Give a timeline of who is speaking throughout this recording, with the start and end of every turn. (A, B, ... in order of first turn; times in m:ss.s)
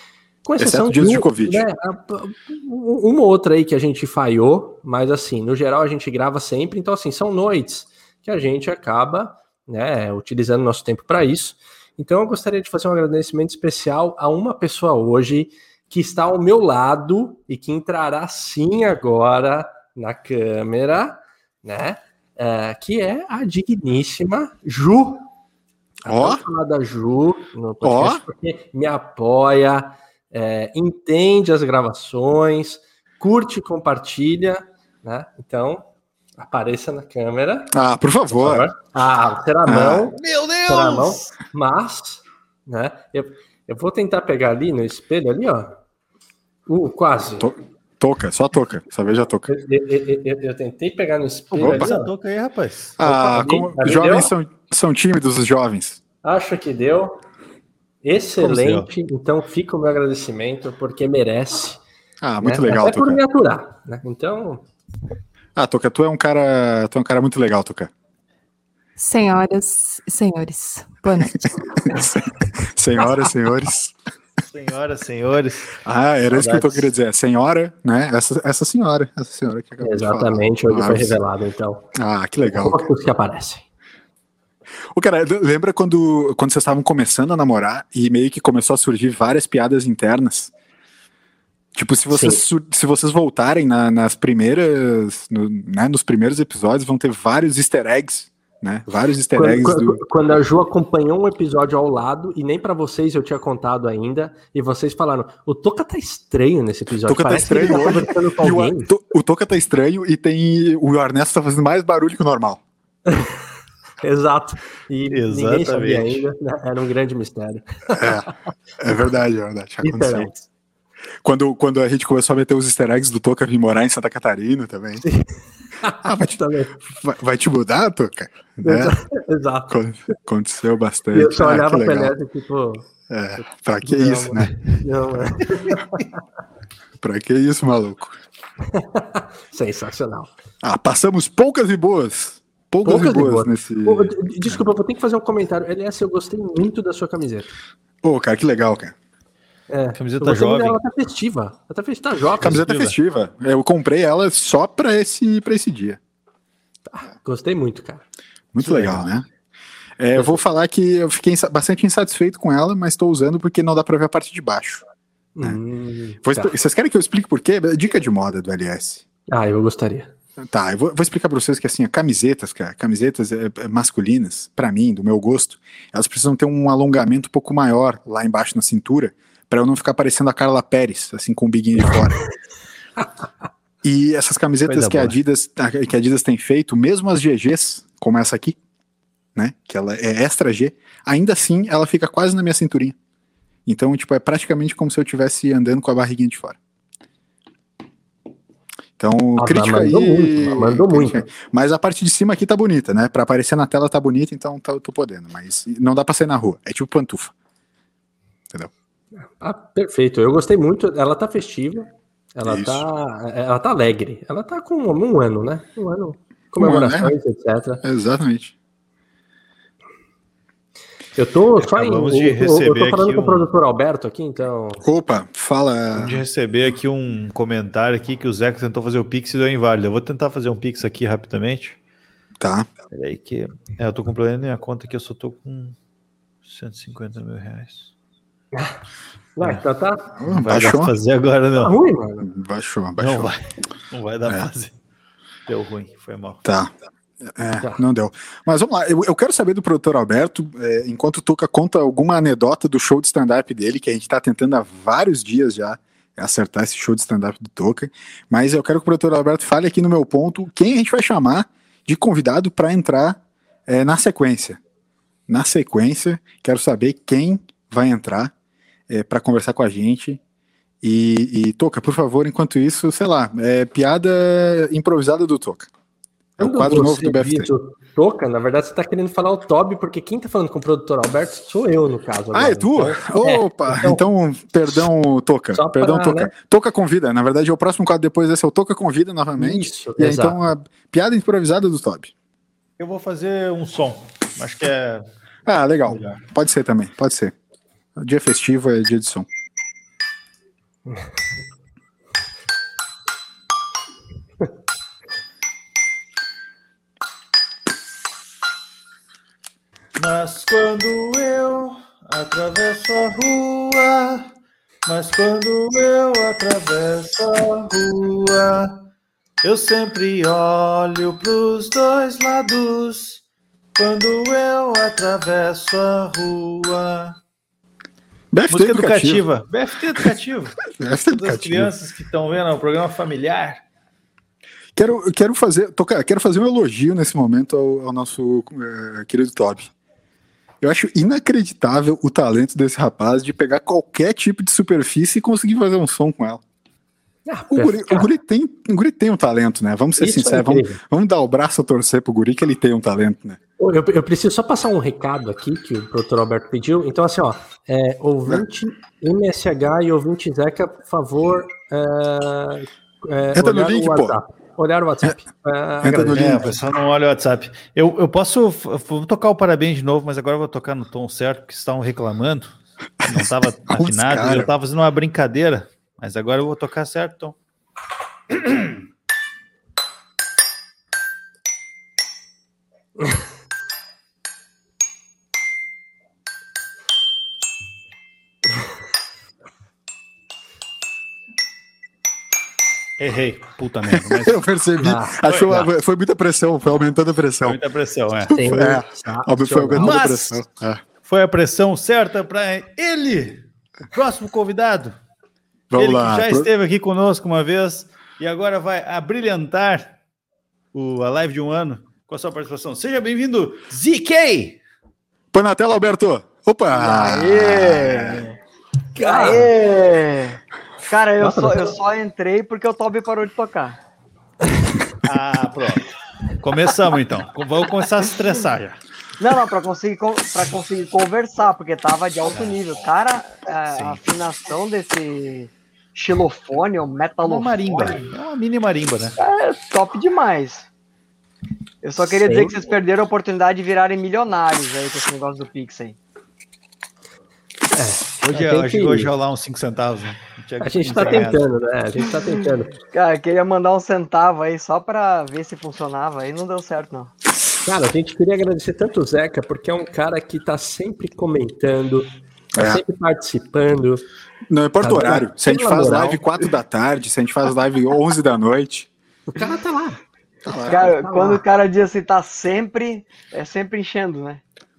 0:00.4-0:25.3 A
0:00.6-0:01.6 B
0:26.0-0:35.9 A
0:26.1-0:26.4 B
0:27.8-0:28.2 B
0:36.4-0:37.7 A
0:37.7-0:38.7 B
0:38.4-0:45.8 A
0:39.6-0:40.1 B
0:40.2-0:41.3 C
0:46.7-0:47.5 A
0:47.4-0:49.5 B
0:49.5-0:52.1 A
0:51.5-0:51.9 B
0:51.6-0:53.0 C
0:53.0-0:56.0 B
0:53.0-0:54.3 A
0:56.2-0:57.2 A
0:58.0-1:01.8 A
0:58.4-0:58.9 C
1:02.2-1:03.2 B
1:02.4-1:04.6 A
1:05.6-1:07.9 B
1:09.0-1:12.0 D
1:11.9-1:12.2 B
1:12.7-1:14.0 B
1:14.5-1:15.8 C
1:15.8-1:21.2 B
1:16.3-1:16.9 C
1:19.8-1:21.9 A
1:22.0-1:22.9 B
1:22.4-1:23.6 A
1:24.9-1:30.5 B
1:31.8-1:40.0 B
1:32.1-1:32.4 A
1:39.4-1:48.9 A
1:47.1-1:52.6 B
1:53.1-1:53.4 A
1:54.0-1:58.2 A
1:55.1-1:56.2 C
1:58.0-1:58.3 B
1:58.8-2:00.4 B
1:59.8-2:00.3 A
2:01.2-2:05.0 B
2:05.0-2:05.3 A
2:05.8-2:06.8 A
2:06.0-2:09.0 B
2:08.6-2:09.8 A
2:09.7-2:12.1 B
2:11.1-2:12.9 A
2:13.1-2:14.5 B
2:13.4-2:16.2 A
2:17.0-2:18.2 B
2:18.7-2:20.3 A
2:20.6-2:24.6 B
2:22.8-2:27.6 A
2:28.0-2:28.9 B
2:29.7-2:32.6 A
2:30.0-2:30.8 C
2:32.4-2:36.0 B
2:32.5-2:32.9 C
2:36.9-2:38.0 A
2:38.5-2:39.3 B
2:38.6-2:39.1 A
2:40.0-2:44.8 B
2:45.4-2:46.5 A
2:46.2-2:49.0 B
2:49.3-2:50.1 A
2:50.4-3:02.2 B
3:03.8-3:08.6 B
3:04.7-3:05.2 C
3:09.4-3:13.0 B
3:13.7-3:16.6 B
3:19.0-3:27.3 B
3:19.4-3:21.2 A
3:29.2-3:37.8 A
3:32.4-3:32.8 B
3:36.6-3:37.1 B
3:37.8-3:38.5 B
3:41.2-3:44.8 A
3:41.6-3:43.5 C
3:44.8-3:46.2 B
3:45.9-3:51.8 C
3:52.4-3:52.7 B
3:52.9-3:55.8 C
3:56.4-3:57.9 C
3:59.4-4:00.1 A
4:00.2-4:00.9 B
4:00.3-4:01.8 C
4:01.6-4:02.3 A
4:02.2-4:03.3 B
4:03.0-4:03.4 C
4:03.9-4:04.7 C
4:05.5-4:06.4 C
4:06.4-4:06.7 B
4:07.2-4:24.6 B
4:25.3-4:28.3 B
4:28.9-4:30.2 B
4:30.8-4:35.7 B
4:36.4-4:37.5 B
4:36.4-4:44.0 A
4:42.3-4:52.1 B
4:45.6-4:46.3 A
4:49.4-4:50.4 A
4:52.8-4:55.0 C
4:55.5-4:57.3 B
4:55.9-4:56.2 C
4:58.0-4:59.3 B
5:10.0-5:14.3 C
5:14.9-5:18.8 C
5:19.4-5:23.2 C
5:23.8-5:27.2 C
5:28.3-5:29.2 B
5:28.5-5:33.6 C
5:30.8-5:31.7 B
5:34.8-5:39.7 B
5:40.6-5:46.4 B
5:47.3-5:48.1 A
5:47.5-5:53.4 B
5:50.0-5:50.8 A
5:53.6-6:06.5 A
6:03.3-6:04.2 B
6:05.8-6:06.5 B
6:06.1-6:17.4 C
6:13.0-6:14.5 B
6:18.3-6:18.8 C
6:33.0-6:34.4 C
6:34.0-6:37.6 B
6:34.8-6:35.7 A
6:37.4-6:38.4 C
6:38.3-6:40.8 B
6:38.3-6:39.9 A
6:39.8-6:40.4 C
6:41.0-6:43.4 C
6:43.9-6:45.0 C
6:45.7-6:46.5 B
6:45.8-6:49.9 C
6:50.7-6:54.6 C
6:55.3-6:58.2 B
6:56.9-6:58.2 E
6:59.0-7:03.8 E
6:59.0-6:59.5 A
7:01.2-7:01.8 A
7:05.0-7:05.8 C
7:06.4-7:08.8 C
7:09.2-7:18.0 E
7:12.3-7:12.6 C
7:13.7-7:14.0 C
7:17.2-7:19.2 C
7:19.2-7:20.7 E
7:21.8-7:26.0 E
7:22.2-7:22.6 A
7:27.7-7:29.1 A
7:28.2-7:31.4 C
7:30.6-7:32.8 A
7:32.9-7:37.1 E
7:37.6-7:44.0 A
7:42.6-7:42.8 B
7:44.5-7:48.9 B
7:44.8-7:46.2 A
7:49.3-7:50.0 A
7:50.5-7:50.8 B
7:50.6-7:54.4 E
7:50.7-7:51.4 A